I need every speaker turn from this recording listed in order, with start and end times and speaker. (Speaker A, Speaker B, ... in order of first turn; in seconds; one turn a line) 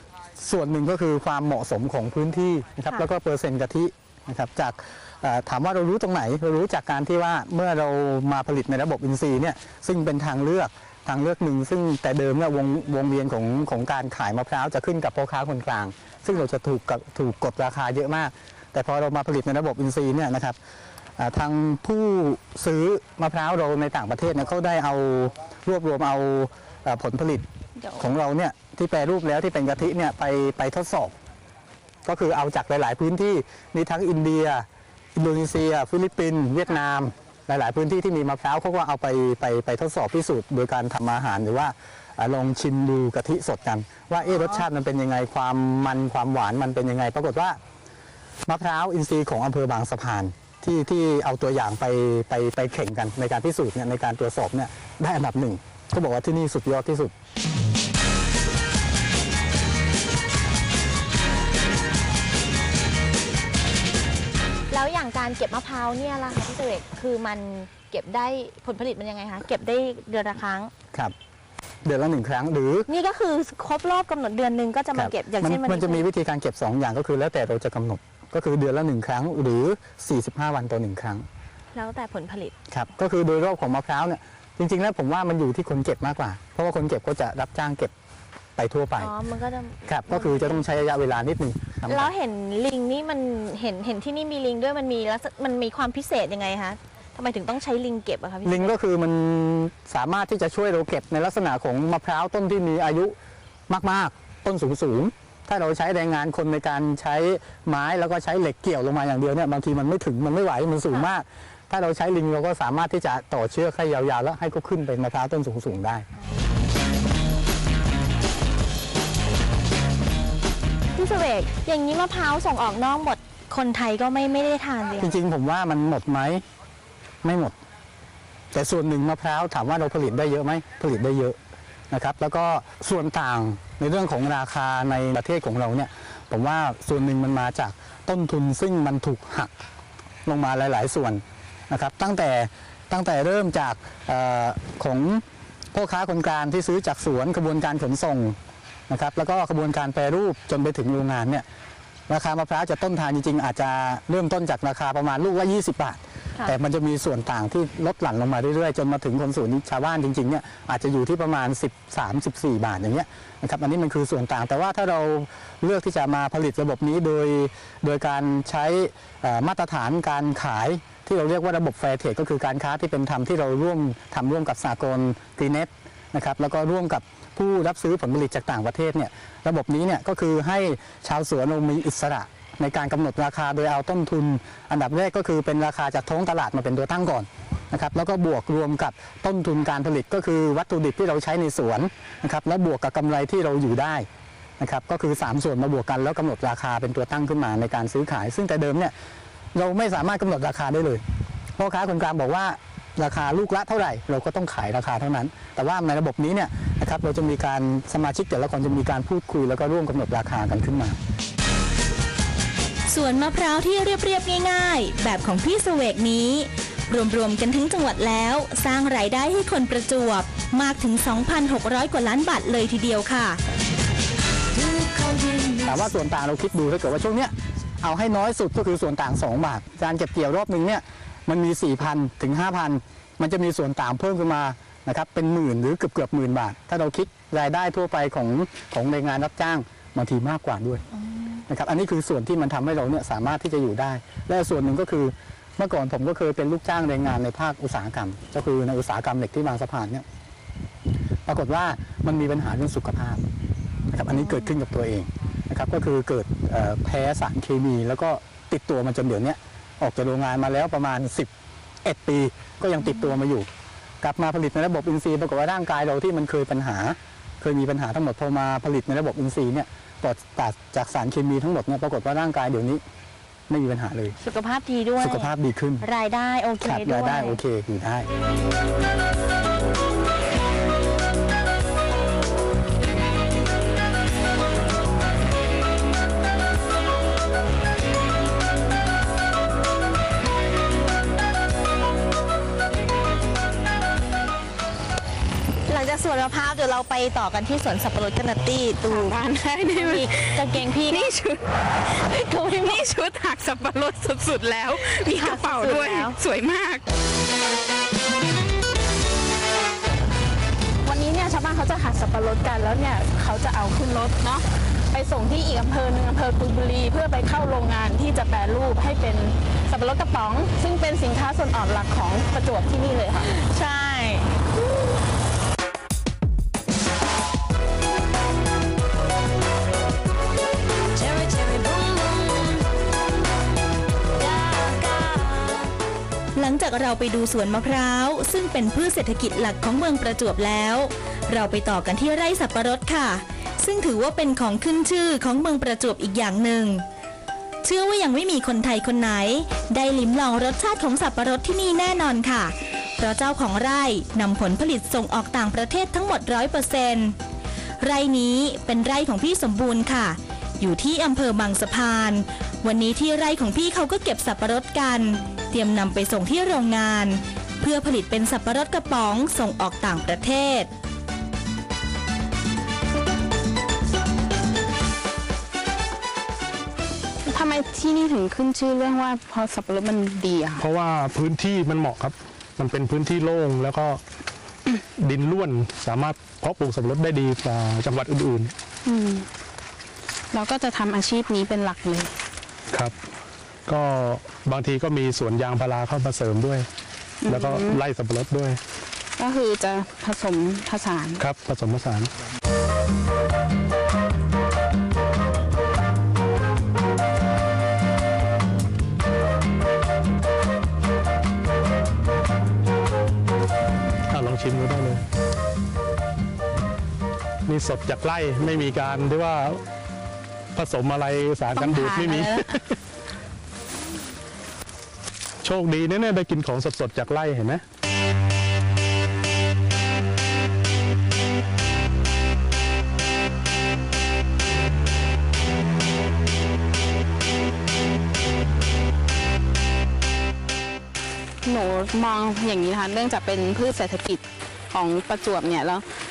Speaker A: 0.4-20.6
Speaker A: 21.2-27.5
Speaker B: 27.8-28.1
Speaker A: 28.0-31.1
Speaker A: 32.0-47.6
Speaker A: 48.5-57.1
Speaker B: 64.7-70.7
Speaker A: 71.8-72.9
Speaker B: 72.9-76.1
Speaker A: 75.0-81.3
Speaker B: 81.7-82.6
Speaker A: 82.7-87.9
Speaker A: 88.6-89.1
Speaker B: 89.0-90.7
Speaker A: 89.9-92.1
Speaker B: 91.9-98.8
Speaker A: 98.4-103.2
Speaker A: 103.7-116.1
Speaker B: 121.0-125.2
Speaker A: 125.0-126.4
Speaker A: 127.2-127.5
Speaker A: 128.5-131.4
Speaker A: 131.9-139.5
Speaker A: 140.2-148.4
Speaker A: 148.9-151.4
Speaker A: 152.1-194.1
Speaker A: 194.6-198.9
Speaker A: 199.5-201.0
Speaker A: 201.6-211.0
Speaker C: 212.9-223.4
Speaker A: 225.6-240.8
Speaker B: 241.0-241.4
Speaker A: 241.5-250.1
Speaker A: 251.3-253.2
Speaker A: 253.9-261.3
Speaker B: 254.1-254.5
Speaker A: 261.8-263.5
Speaker B: 262.8-263.2
Speaker A: 264.0-272.8
Speaker A: 273.5-274.2
Speaker B: 274.2-277.4
Speaker A: 275.0-275.9
Speaker A: 276.6-278.1
Speaker B: 295.7-299.2
Speaker D: 298.9-301.5
Speaker B: 299.8-301.1
Speaker B: 302.1-302.9
Speaker D: 302.3-306.8
Speaker B: 304.9-306.2
Speaker D: 310.9-323.3
Speaker B: 323.2-324.4
Speaker C: 336.4-346.9
Speaker C: 347.6-357.2
Speaker C: 357.8-370.7
Speaker D: 377.2-380.6
Speaker E: 380.6-384.0
Speaker E: 385.0-388.5
Speaker D: 388.9-389.3
Speaker D: 390.3-392.1
Speaker E: 393.7-396.7
Speaker D: 397.2-397.8
Speaker E: 397.3-398.6
Speaker D: 399.2-401.2
Speaker E: 401.2-402.1
Speaker E: 414.1-415.0
Speaker E: 417.5-419.6
Speaker E: 420.6-422.8
Speaker D: 421.5-422.6
Speaker E: 425.4-427.6
Speaker D: 441.4-445.9